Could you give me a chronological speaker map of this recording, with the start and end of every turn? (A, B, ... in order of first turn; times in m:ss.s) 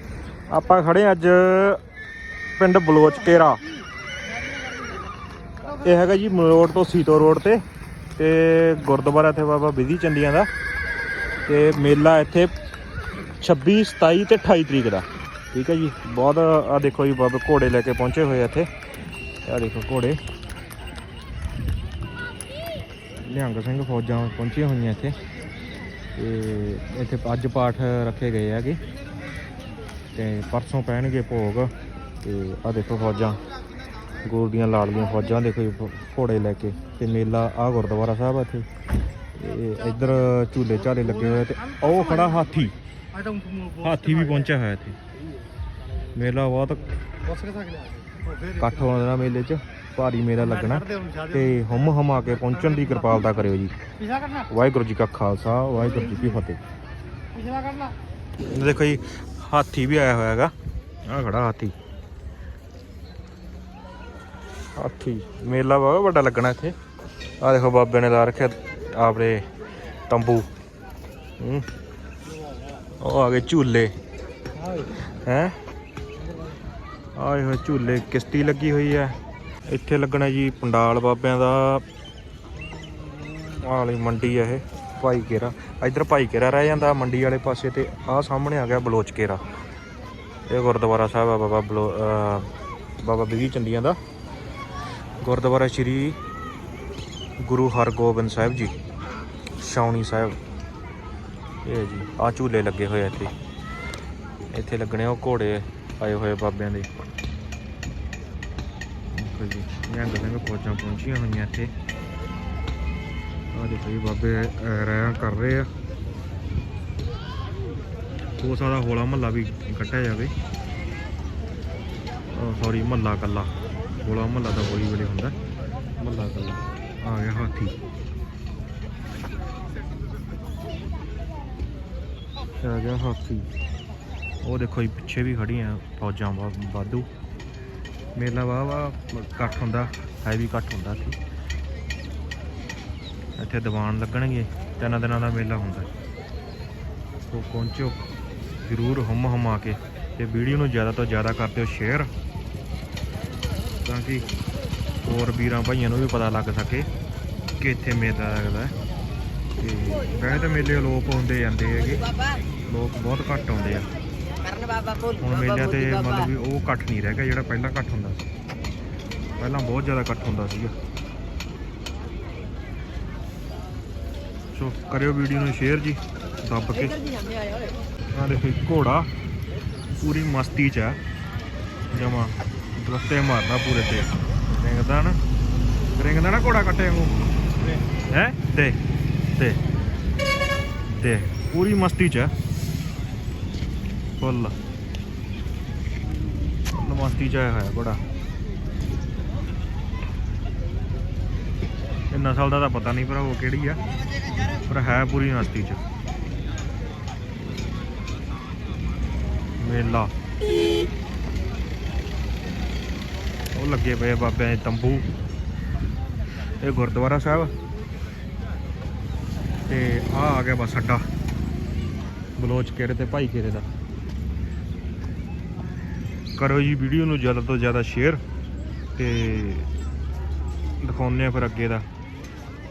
0:00.5-0:01.8 A
0:02.6-0:03.6 A
0:05.8-0:07.6 A
0:08.2-0:10.5 A
0:11.5-0:12.5 A
0:13.4-0:18.7 A
0:19.4-0:20.2 A
0:23.2-0:25.2 A
0:26.2-0:28.8 A
0:30.1-0:31.7 A
0:32.2-0:33.4 A
0:34.2-0:38.7 A
0:39.4-0:42.8 A
0:43.8-0:45.0 A
0:46.1-0:46.8 A
0:48.6-0:53.8 A
0:54.5-0:56.6 A
0:58.5-1:00.5 A
1:01.0-1:01.7 A
1:04.8-1:06.8 A
1:07.4-1:09.5 A
1:10.1-1:10.5 A
1:11.4-1:11.7 A
1:13.0-1:13.9 A
1:14.9-1:15.6 A
1:17.2-1:21.8 A
1:23.4-1:29.4 A
1:30.5-1:34.0 A
1:35.2-1:36.2 A
1:37.4-1:38.7 A
1:39.6-1:40.4 A
1:41.6-1:43.3 A
1:44.5-1:46.9 A
1:49.1-1:51.7 A
1:53.5-1:55.7 A
1:58.4-2:00.3 A
2:02.3-2:03.5 A
2:04.0-2:05.4 A
2:06.0-2:07.8 A
2:12.6-2:13.5 A
2:14.4-2:17.1 A
2:18.2-2:21.2 A
2:23.4-2:25.9 A
2:27.3-2:28.0 A
2:28.6-2:32.1 A
2:33.8-2:34.2 A
2:35.0-2:36.9 A
2:37.6-2:38.8 A
2:39.6-2:42.1 A
2:42.7-2:43.9 A
2:45.2-2:48.3 A
2:49.4-2:50.7 A
2:54.5-2:57.0 A
2:58.1-2:59.1 A
3:00.0-3:01.0 A
3:01.9-3:05.2 A
3:06.0-3:07.2 A
3:08.1-3:08.8 A
3:09.4-3:09.6 A
3:10.9-3:12.3 A
3:14.2-3:14.6 A
3:16.7-3:18.0 A
3:22.1-3:23.8 A
3:24.7-3:25.8 A
3:29.6-3:30.1 A
3:33.5-3:35.1 A
3:36.6-3:37.5 A
3:39.7-3:41.1 A
3:42.4-3:43.7 A
3:46.4-3:48.2 A
3:49.0-3:49.7 A
3:50.8-3:51.9 A